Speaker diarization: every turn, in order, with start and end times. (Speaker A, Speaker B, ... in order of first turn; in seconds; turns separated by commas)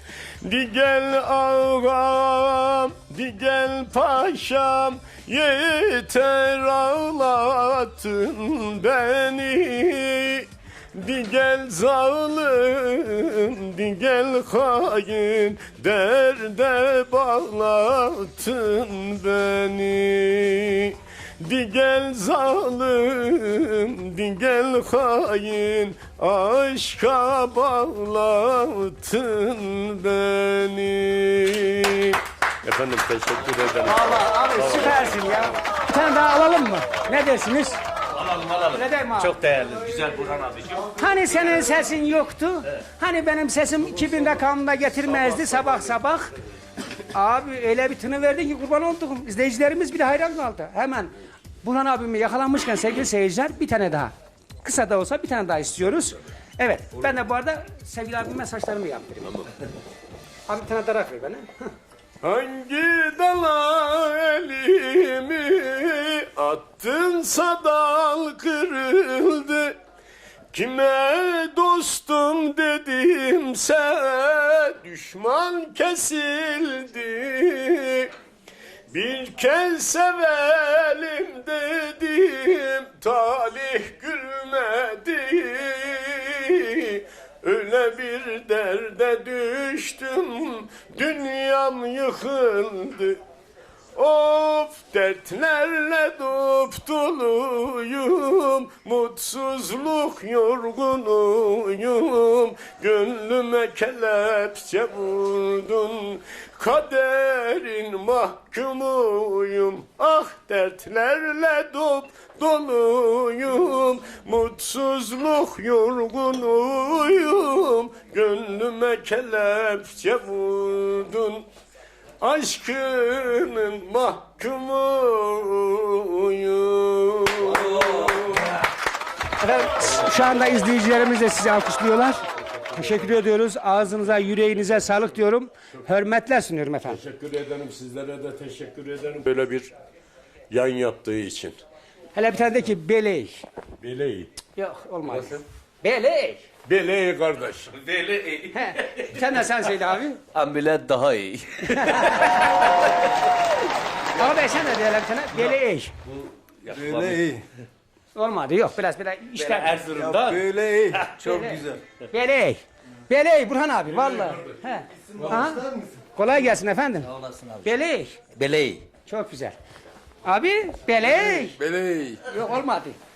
Speaker A: 0.4-35.5, Speaker B: 33.8-37.8, Speaker C: 38.1-40.9, Speaker B: 38.7-39.4, Speaker B: 40.9-46.3, Speaker B: 47.1-51.1, Speaker B: 51.6-54.1, Speaker B: 54.6-59.5, Speaker B: 60.5-61.7, Speaker A: 62.2-69.8, Speaker A: 70.5-78.1, Speaker A: 78.9-93.2, Speaker A: 94.0-121.5, Speaker A: 122.2-128.5, Speaker C: 127.7-128.0, Speaker B: 129.4-137.0, Speaker A: 136.9-139.7, Speaker A: 140.5-141.6, Speaker B: 142.1-143.4, Speaker A: 143.8-144.4, Speaker B: 144.6-146.4, Speaker C: 145.1-145.4, Speaker A: 146.6-147.7, Speaker C: 147.7-149.5, Speaker B: 148.5-150.2, Speaker C: 150.3-152.7, Speaker B: 151.8-152.5, Speaker B: 154.1-155.9, Speaker C: 155.3-157.4, Speaker D: 156.7-157.4, Speaker B: 158.1-159.9, Speaker C: 159.3-161.8, Speaker D: 159.9-161.8, Speaker B: 161.2-168.3, Speaker D: 165.1-165.8, Speaker C: 167.2-167.6, Speaker C: 168.3-168.8, Speaker B: 169.0-169.6, Speaker B: 170.2-171.6, Speaker D: 171.5-172.2, Speaker B: 172.2-173.0